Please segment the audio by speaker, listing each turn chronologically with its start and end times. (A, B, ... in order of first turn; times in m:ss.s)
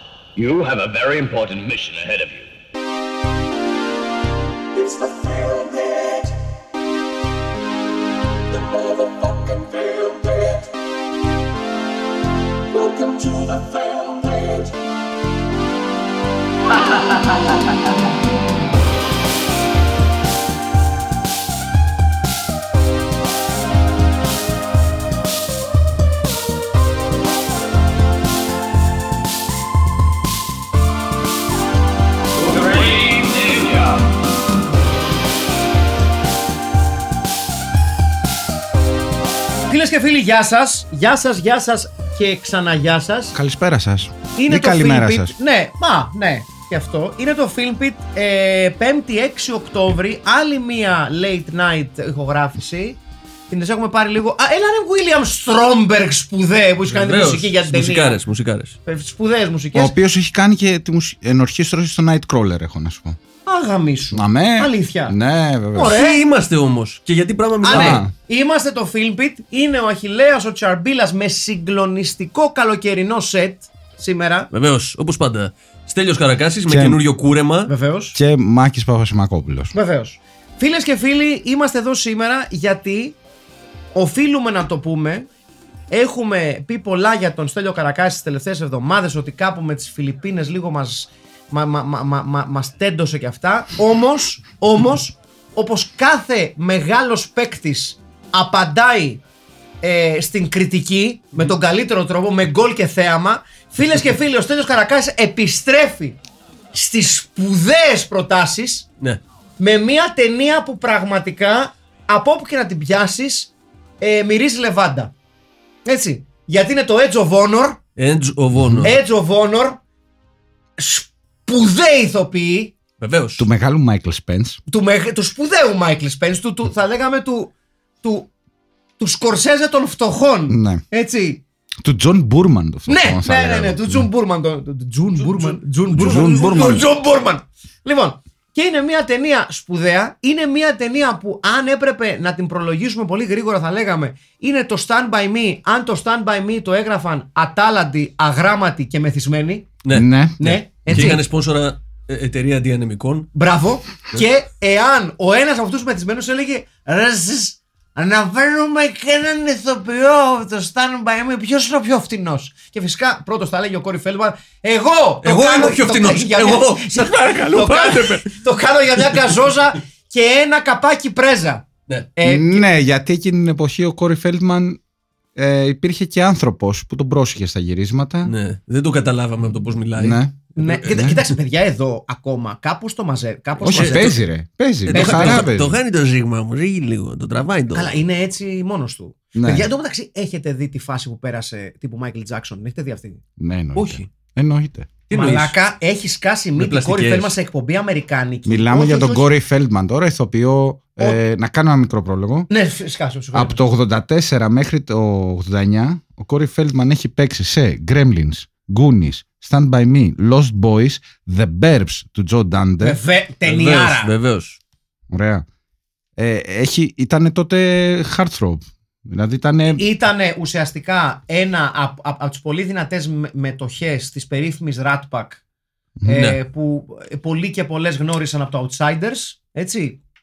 0:00.4-0:02.5 A
0:04.8-0:06.3 B
0:08.7-0:10.5 B
0:12.8-0:14.6 B
0:32.5-0:33.9 B
0:39.7-0:43.4 C
0:43.3-0:45.3 D
0:44.4-0:53.0 C
0:53.5-0:58.2 C
0:56.9-0:58.8 E
0:58.9-0:59.9 C
0:59.7-1:03.2 D
1:03.5-1:05.2 C
1:04.1-1:06.0 D
1:05.7-1:06.2 C
1:05.8-1:08.0 E
1:07.6-1:14.5 C
1:07.7-1:08.1 D
1:14.5-1:17.7 E
1:16.7-1:17.0 D
1:17.7-1:18.2 C
1:18.2-1:19.7 D
1:19.7-1:23.2 C
1:23.9-1:25.3 C
1:25.9-1:39.2 C
1:39.8-1:46.2 C
1:46.7-1:48.8 C
1:49.6-1:55.1 C
1:55.9-1:57.8 C
1:58.0-1:59.0 E
1:58.8-1:59.8 C
2:00.8-2:02.8 C
2:03.0-2:03.5 E
2:03.4-2:04.6 D
2:04.7-2:08.3 C
2:09.0-2:11.4 C
2:10.5-2:10.8 D
2:11.8-2:14.1 D
2:12.9-2:29.7 C
2:15.2-2:15.6 E
2:15.9-2:16.9 D
2:29.9-2:31.2 D
2:30.4-2:31.2 C
2:30.8-2:33.3 E
2:33.3-2:52.7 C
2:45.2-2:48.3 E
2:52.2-2:54.8 D
2:55.4-2:58.3 D
2:58.2-3:01.0 E
3:00.0-3:01.2 D
3:00.6-3:04.2 C
3:03.6-3:05.8 D
3:03.7-3:04.1 E
3:04.9-3:08.0 E
3:04.9-3:05.5 C
3:07.7-3:13.2 C
3:09.3-3:09.7 D
3:13.4-3:14.9 D
3:13.8-3:14.1 E
3:15.1-3:15.6 E
3:15.1-3:19.3 C
3:16.6-3:17.3 E
3:18.5-3:22.5 D
3:22.5-3:23.6 C
3:23.3-3:33.0 D
3:32.8-3:34.1 C
3:33.5-3:34.6 E
3:35.1-3:35.4 D
3:36.2-3:39.8 D
3:39.8-3:45.4 C
3:46.0-3:46.2 D
3:46.0-3:50.0 C
3:46.1-3:46.4 E